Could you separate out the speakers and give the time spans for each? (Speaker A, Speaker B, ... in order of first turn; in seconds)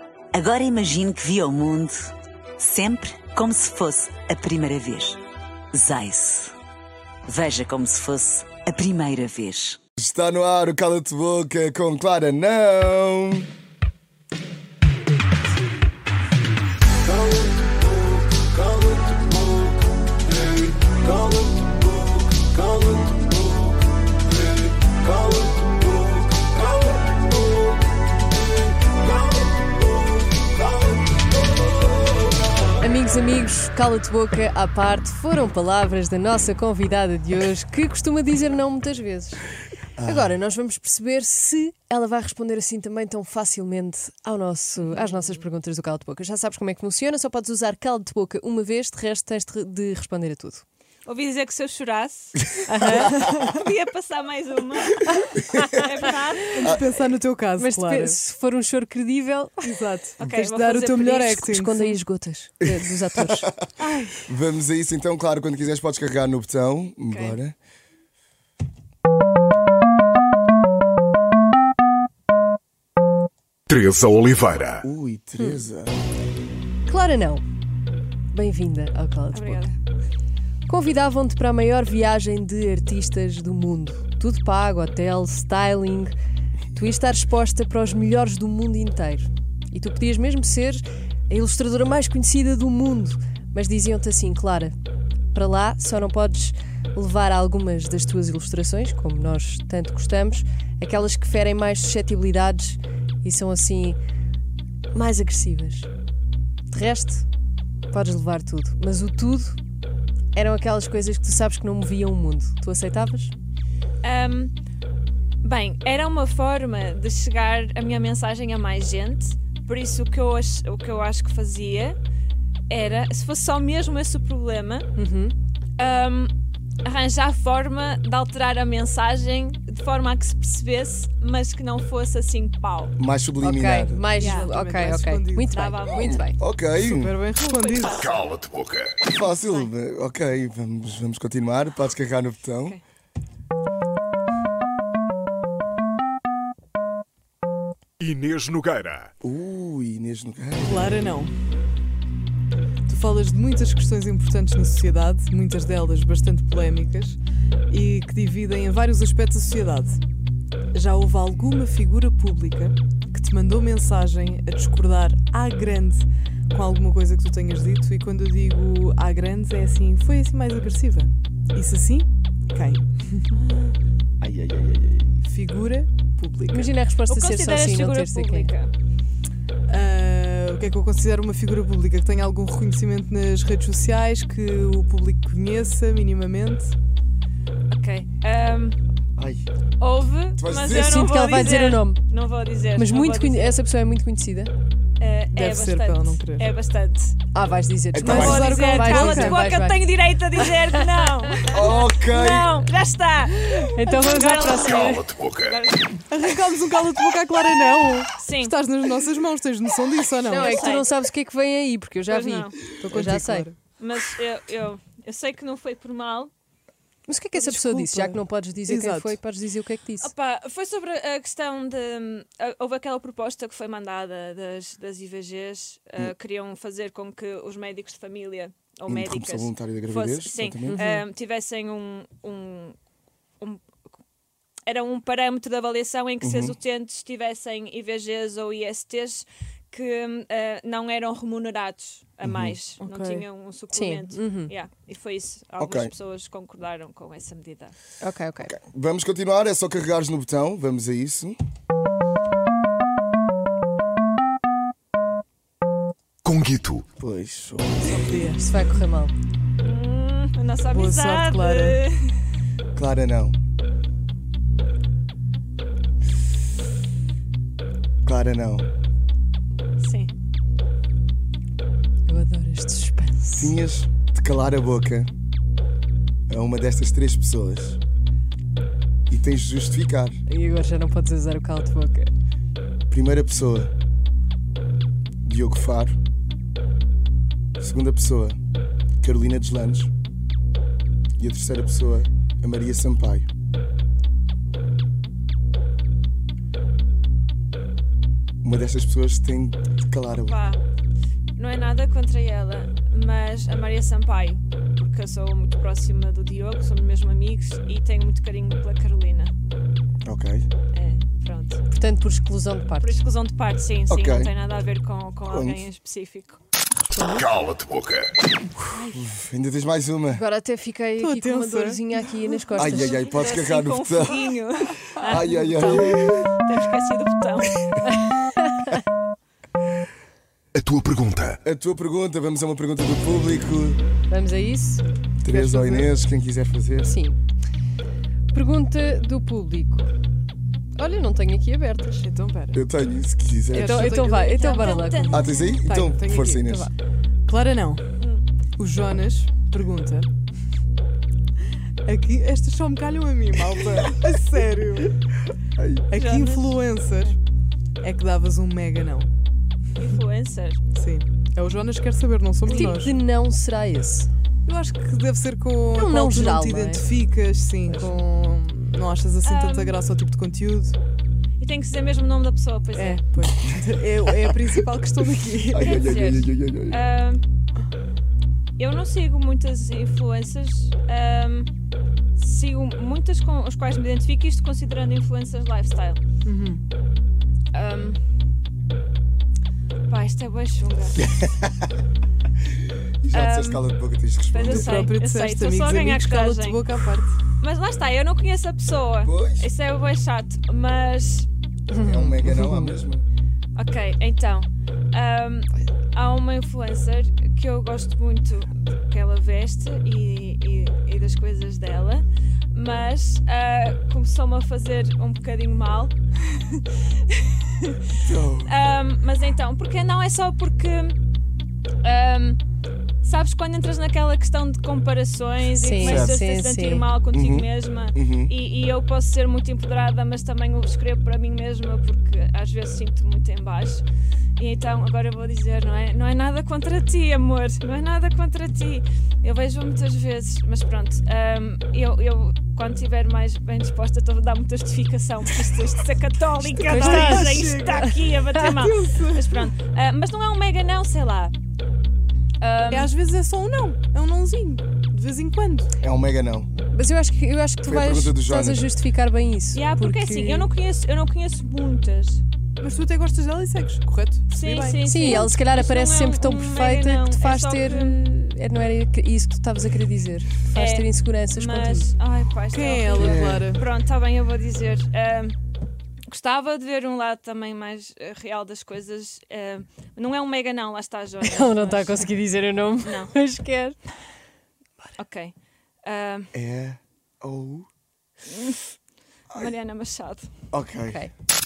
Speaker A: 0.3-5.2, 5.7-6.5, 7.3-9.8
Speaker B: 10.0-13.5, 40.0-40.3, 55.5-55.8, 64.2-67.5, 74.8-76.0, 133.0-134.1, 136.0-137.1, 139.1-142.8, 149.2-151.0, 174.2-175.2, 189.2-189.4, 190.4-190.9, 197.9-198.5, 201.5-202.5, 228.9-230.8, 236.2-236.5, 242.2-242.6, 245.6-245.9, 248.4-251.4, 257.0-258.1, 262.7-263.4, 268.0-268.7, 273.4-275.1, 276.3-277.8, 279.1-280.2, 282.9-283.7, 285.2-285.9, 287.6-288.4, 289.0-289.9, 291.2-293.3, 298.4-300.4, 310.0-310.4, 313.9-314.3, 315.3-315.6, 318.9-320.2, 322.6-324.3, 325.1-326.3, 331.4-333.8, 335.2-336.9, 342.5-344.1, 345.1-346.7, 355.6-355.9, 375.5-376.8, 391.0-391.7, 393.0-394.8, 399.0-399.5, 401.8-403.0, 418.0-418.5, 425.8-426.2, 427.1-428.3, 455.8-456.5, 457.6-458.6, 472.9-473.5, 486.3-487.7, 490.5-491.0
Speaker C: 32.8-39.4, 40.0-50.6, 52.7-53.3, 55.6-55.8, 57.5-59.8, 61.1-63.5, 76.9-77.4, 78.3-79.7, 80.7-86.1, 86.7-94.7, 95.3-104.0, 104.9-105.9, 106.7-107.2, 107.9-109.6, 110.3-113.3, 125.0-125.3, 133.4-136.4, 176.5-178.6, 190.7-192.0, 192.7-194.5, 197.3-200.7, 203.6-205.1, 210.3-213.5, 217.1-220.1, 230.6-231.1, 243.7-244.5, 248.0-248.5, 258.4-259.1, 272.1-273.5, 280.3-282.1, 311.7-313.0, 316.8-317.3, 320.1-323.0, 328.2-328.8, 334.1-334.8, 336.8-337.2, 338.3-339.9, 340.8-342.0, 343.5-345.4, 362.4-364.1, 365.7-366.9, 367.6-367.9, 401.7-402.8, 425.5-426.9, 446.6-448.4, 456.6-460.5, 464.8-471.9, 481.2-483.8, 490.9-491.1
Speaker D: 44.9-45.4, 51.0-56.5, 60.2-61.3, 67.1-67.4, 79.3-79.8, 114.0-114.5, 115.4-122.0, 122.7-124.9, 125.8-126.3, 126.8-132.9, 134.2-134.5, 135.5-136.3, 137.4-138.3, 139.2-139.7, 177.1-178.7, 187.7-188.8, 189.8-193.6, 195.0-197.1, 198.0-205.9, 208.2-208.5, 210.3-210.9, 212.1-212.6, 213.8-216.3, 220.0-232.8, 234.7-247.7, 259.6-262.1, 269.8-270.1, 300.2-300.6, 301.4-309.3, 310.7-311.6, 312.8-316.4, 318.7-319.1, 322.9-327.8, 344.2-345.6, 348.0-348.2, 355.9-356.6, 359.8-360.6, 362.5-362.8, 369.2-369.8, 371.4-373.0, 375.6-377.2, 378.6-381.5, 382.1-386.0, 387.5-388.0, 389.9-391.0, 393.1-393.6, 394.3-396.7, 397.4-401.3, 403.6-417.7, 418.4-421.0, 421.8-422.4, 423.0-433.8, 434.4-451.3, 452.4-452.9, 459.5-462.2, 464.3-468.0, 470.5-475.4, 476.1-482.1, 482.8-483.1, 485.0-486.3, 488.3-488.6, 489.3-490.3
Speaker E: 56.5-58.2, 59.6-62.0, 63.8-64.2, 134.2-135.5, 136.6-138.1, 150.6-151.3, 152.9-157.2, 157.7-160.0, 160.7-173.4, 175.2-176.7, 179.7-186.7, 195.3-196.5, 198.0-199.4, 206.1-210.8, 212.6-213.5, 217.3-219.2, 242.8-243.3, 257.8-258.7, 260.7-261.8, 321.0-322.9, 335.3-335.9, 342.0-342.6, 343.5-346.5, 347.2-347.8, 348.6-350.1, 351.8-354.9, 355.9-357.2, 357.8-359.1, 360.7-363.0, 364.4-370.8, 372.7-375.9, 386.2-386.6, 394.5-397.2, 446.5-447.9, 448.5-449.5, 452.7-455.7, 462.6-465.3, 472.5-473.7
Speaker F: 73.7-74.8, 138.0-138.9, 148.0-149.1, 205.0-205.5, 256.2-256.8, 317.3-318.1, 330.6-331.4